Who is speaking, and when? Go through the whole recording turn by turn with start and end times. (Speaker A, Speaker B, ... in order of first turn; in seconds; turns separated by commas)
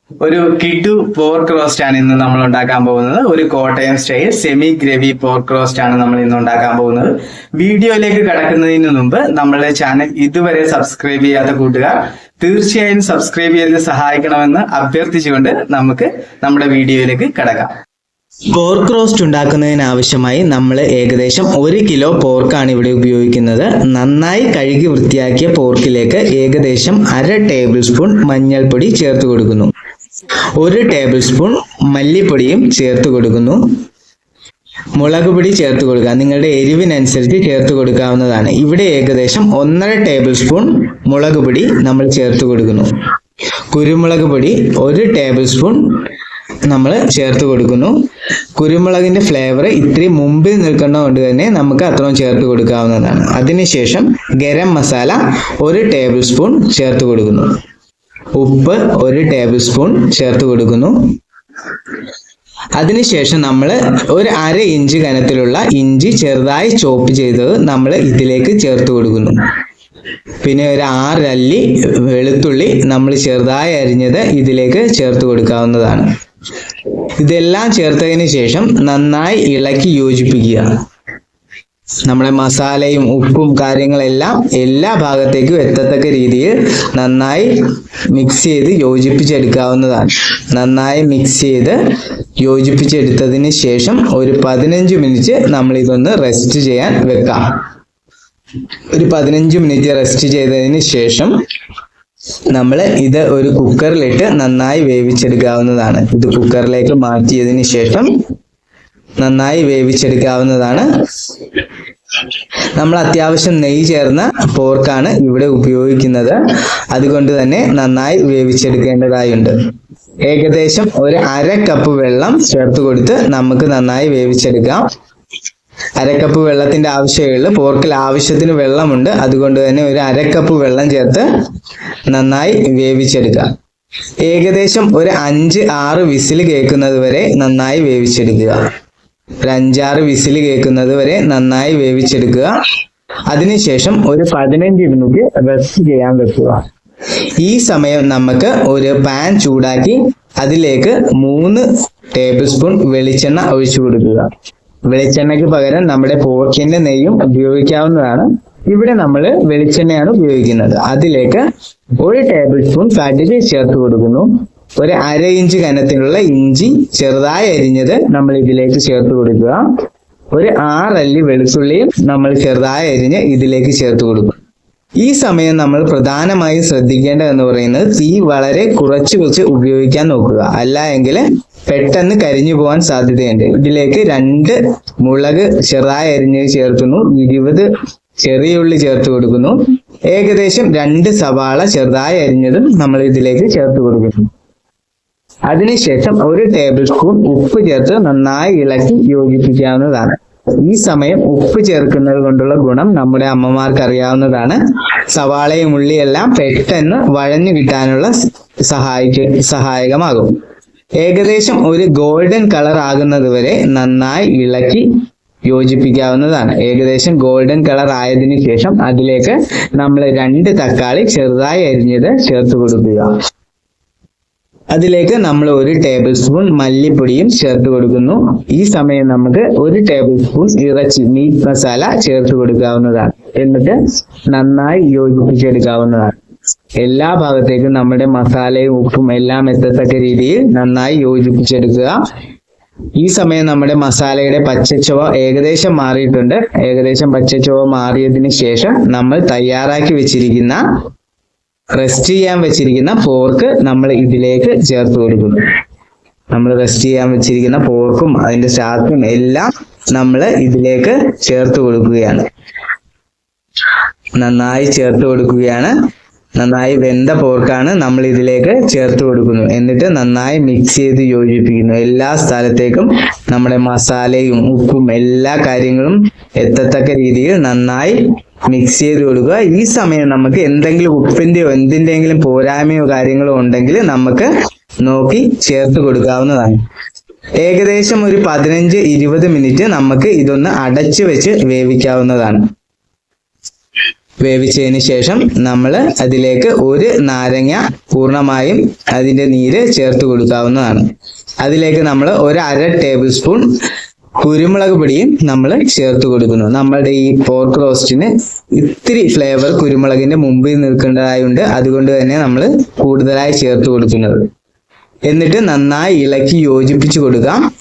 Speaker A: 0.2-17.7, Speaker A: 18.5-29.7, Speaker A: 30.6-33.6, Speaker A: 34.9-42.9, Speaker A: 43.7-45.8, Speaker A: 46.7-47.9, Speaker A: 48.5-57.5, Speaker A: 58.3-61.1, Speaker A: 62.8-69.4, Speaker A: 70.4-76.1, Speaker A: 77.2-80.7, Speaker A: 82.0-87.6, Speaker A: 88.1-91.8, Speaker A: 92.4-97.4, Speaker A: 98.9-101.3, Speaker A: 102.5-108.1, Speaker A: 109.2-110.9, Speaker A: 112.8-116.4, Speaker A: 116.9-119.5, Speaker A: 120.2-124.8, Speaker A: 126.0-131.3, Speaker A: 132.1-133.5, Speaker A: 134.2-138.6, Speaker A: 139.4-142.5, Speaker A: 143.3-146.6, Speaker A: 147.4-154.3, Speaker A: 154.9-161.4, Speaker A: 162.0-169.6, Speaker A: 170.3-174.3, Speaker A: 175.0-187.7, Speaker A: 188.2-189.6, Speaker A: 190.1-194.3, Speaker A: 195.5-204.6, Speaker A: 205.1-210.3, Speaker A: 211.0-214.8, Speaker A: 215.4-223.1, Speaker A: 224.7-236.2, Speaker A: 236.8-242.0, Speaker A: 243.0-250.6, Speaker A: 251.7-255.4, Speaker A: 256.3-262.2, Speaker A: 264.2-265.7, Speaker A: 266.4-284.3, Speaker A: 284.8-286.6, Speaker A: 287.4-292.4, Speaker A: 294.2-300.9, Speaker A: 301.4-303.4, Speaker A: 304.2-314.2, Speaker A: 315.1-317.4